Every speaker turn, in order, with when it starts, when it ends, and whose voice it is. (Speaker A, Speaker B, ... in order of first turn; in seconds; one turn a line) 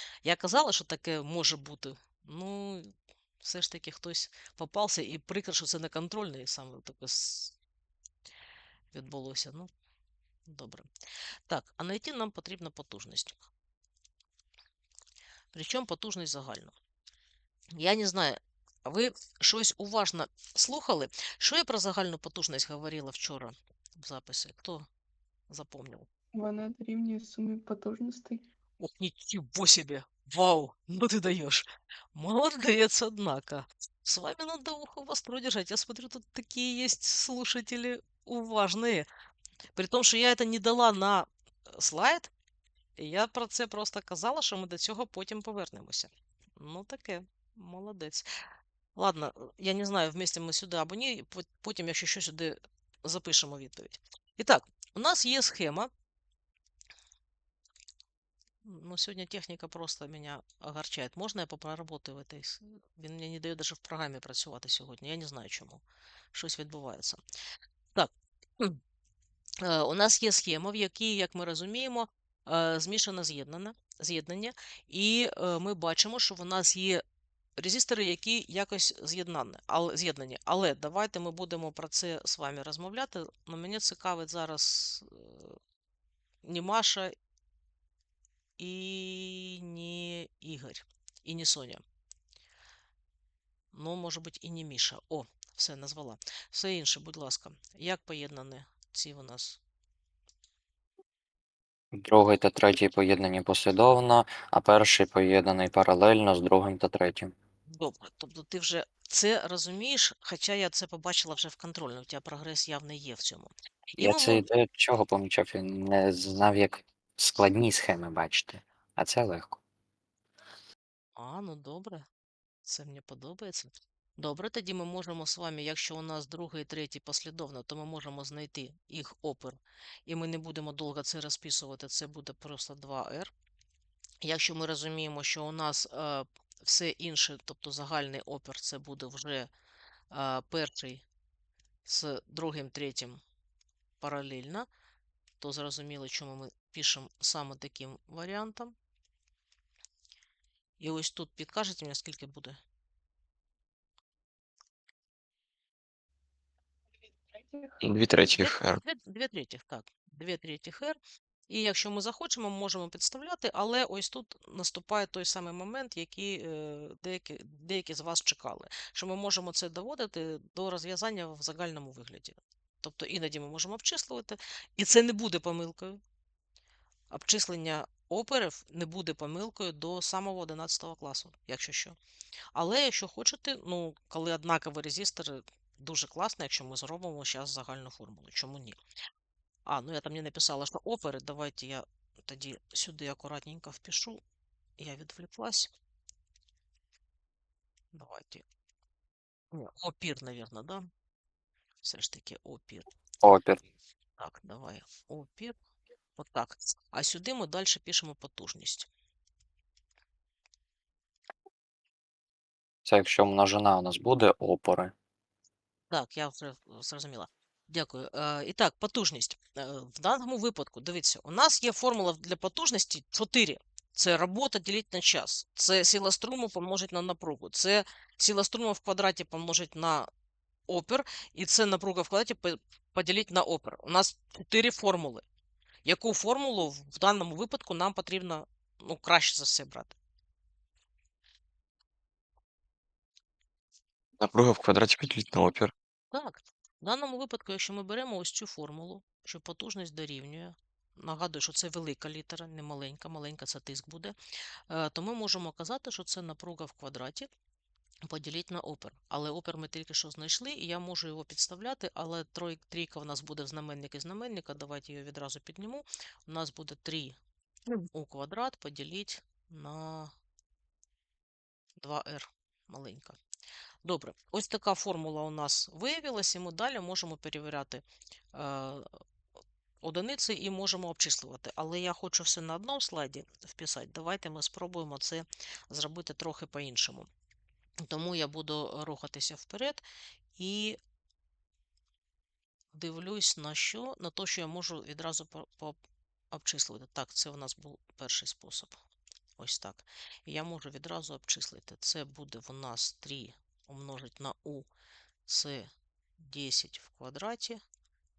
Speaker A: 0.2-7.5
Speaker A: 8.9-9.7
Speaker A: 10.5-10.9
Speaker A: 11.5-13.5
Speaker A: 15.5-16.7
Speaker A: 17.8-24.9
Speaker A: 25.5-26.1
Speaker B: 26.3-28.4
Speaker A: 28.8-39.1
Speaker A: 39.8-42.3
Speaker A: 43.0-48.3
Speaker A: 49.0-55.9
Speaker A: 58.6-65.8
Speaker A: 66.3-67.2
Speaker A: 68.0-68.8
Speaker A: 69.6-77.0
Speaker A: 77.6-85.6
Speaker A: 86.4-87.2
Speaker A: 88.6-91.8
Speaker A: 93.7-99.6
Speaker C: 101.9-107.3
Speaker A: 107.7-114.5
Speaker C: 114.0-119.6
Speaker A: 121.2-122.1
Speaker A: 122.7-133.3
Speaker A: 134.2-139.5
Speaker A: 140.1-141.0
Speaker A: 141.9-143.2
Speaker A: 144.0-144.7
Speaker A: 145.4-148.7
Speaker A: 150.8-152.6
Speaker B: 157.1-157.8
Speaker D: 157.8-158.8
Speaker A: 158.3-161.0
Speaker A: 161.5-176.0
Speaker A: 177.1-182.0
Speaker A: 182.6-188.8
Speaker A: 189.7-194.2
Speaker A: 194.8-195.7
Speaker A: 197.9-198.4
Speaker A: 199.5-200.9
Speaker A: 201.8-202.9
Speaker C: 203.2-203.6
Speaker A: 204.2-205.6
Speaker A: 206.2-208.9
Speaker C: 212.8-214.9
Speaker A: 215.9-230.1
Speaker A: 230.7-235.2
Speaker A: 235.9-240.0
Speaker D: 244.2-245.7
Speaker A: 246.1-254.2
Speaker A: 254.7-257.3
Speaker A: 258.1-267.2
Speaker A: 267.9-270.1
Speaker A: 271.8-273.2
Speaker A: 273.8-278.9
Speaker A: 279.8-287.1
Speaker A: 287.9-289.8
Speaker A: 290.4-290.8
Speaker A: 292.7-295.8
Speaker A: 296.3-298.8
Speaker A: 299.4-304.7
Speaker A: 305.3-307.6